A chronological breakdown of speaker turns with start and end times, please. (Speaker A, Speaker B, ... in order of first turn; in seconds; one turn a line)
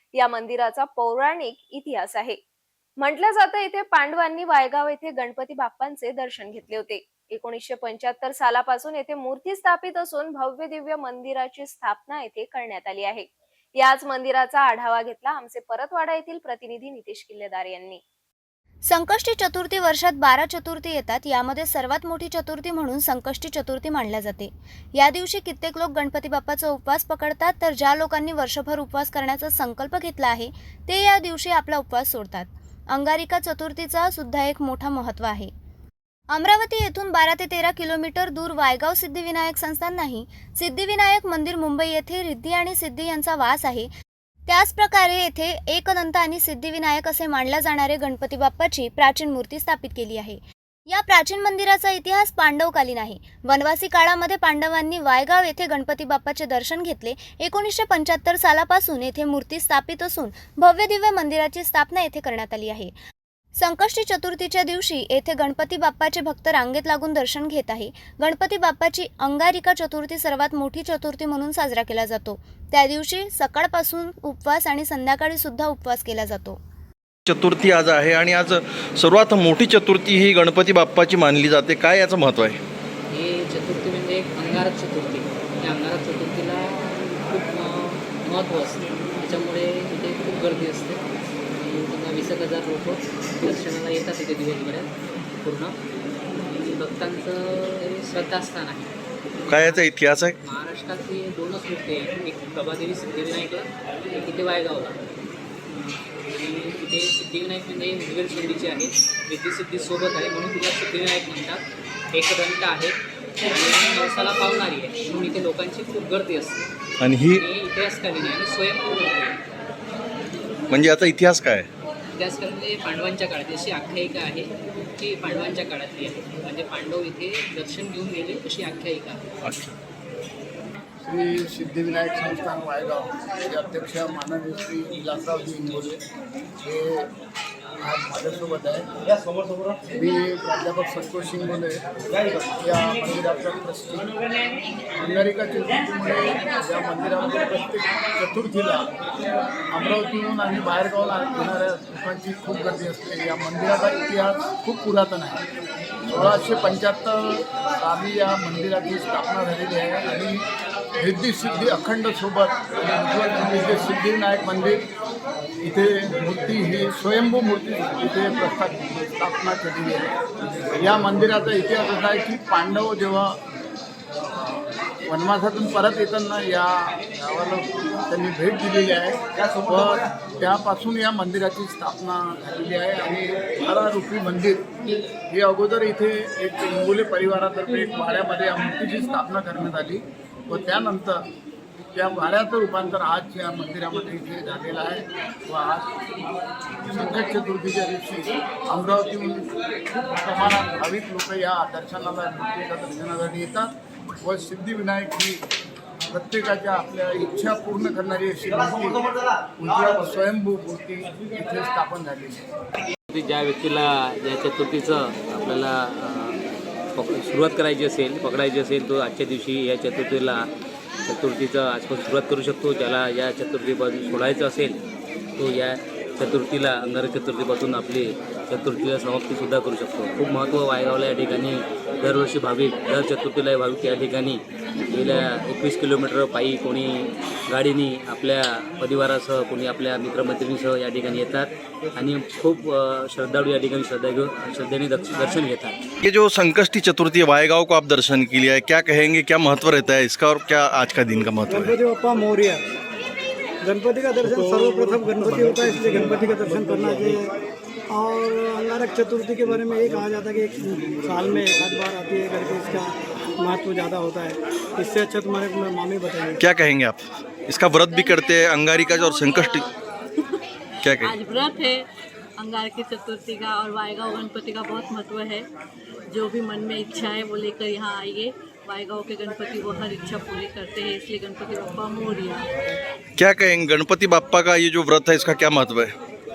Speaker A: 0.2-2.4
Speaker A: 3.0-13.3
Speaker A: 13.8-18.0
Speaker B: 18.9-35.5
Speaker B: 36.3-43.9
Speaker B: 44.5-62.9
Speaker B: 63.6-76.6
Speaker C: 77.3-82.6
Speaker D: 83.1-91.0
Speaker D: 91.6-94.8
Speaker D: 95.4-95.7
Speaker D: 96.5-98.8
Speaker C: 99.5-100.4
Speaker D: 100.5-103.6
Speaker D: 104.1-104.9
Speaker D: 106.3-113.0
Speaker D: 113.5-116.6
Speaker C: 117.0-117.5
Speaker D: 117.5-119.4
Speaker C: 120.7-121.7
Speaker D: 122.2-129.2
Speaker C: 129.4-129.7
Speaker E: 131.0-136.0
Speaker E: 136.6-137.1
Speaker E: 137.8-138.9
Speaker E: 139.9-141.8
Speaker E: 142.6-144.1
Speaker E: 145.0-148.9
Speaker E: 149.7-155.4
Speaker E: 156.1-160.4
Speaker E: 161.0-164.8
Speaker E: 165.6-170.1
Speaker E: 170.8-173.3
Speaker E: 175.1-184.6
Speaker E: 185.3-191.2
Speaker E: 191.9-195.9
Speaker E: 196.8-199.6
Speaker E: 200.2-203.7
Speaker E: 204.2-205.4
Speaker E: 206.1-212.5
Speaker F: 213.1-216.4
Speaker F: 217.0-220.5
Speaker F: 221.1-224.8
Speaker F: 225.4-245.8
Speaker C: 246.0-251.8
Speaker G: 251.5-252.6
Speaker G: 253.6-257.3
Speaker G: 257.9-266.4
Speaker C: 266.4-269.7
Speaker C: 270.8-271.2
Speaker H: 271.3-271.8
Speaker H: 272.4-275.4
Speaker H: 276.1-282.4
Speaker C: 283.2-285.9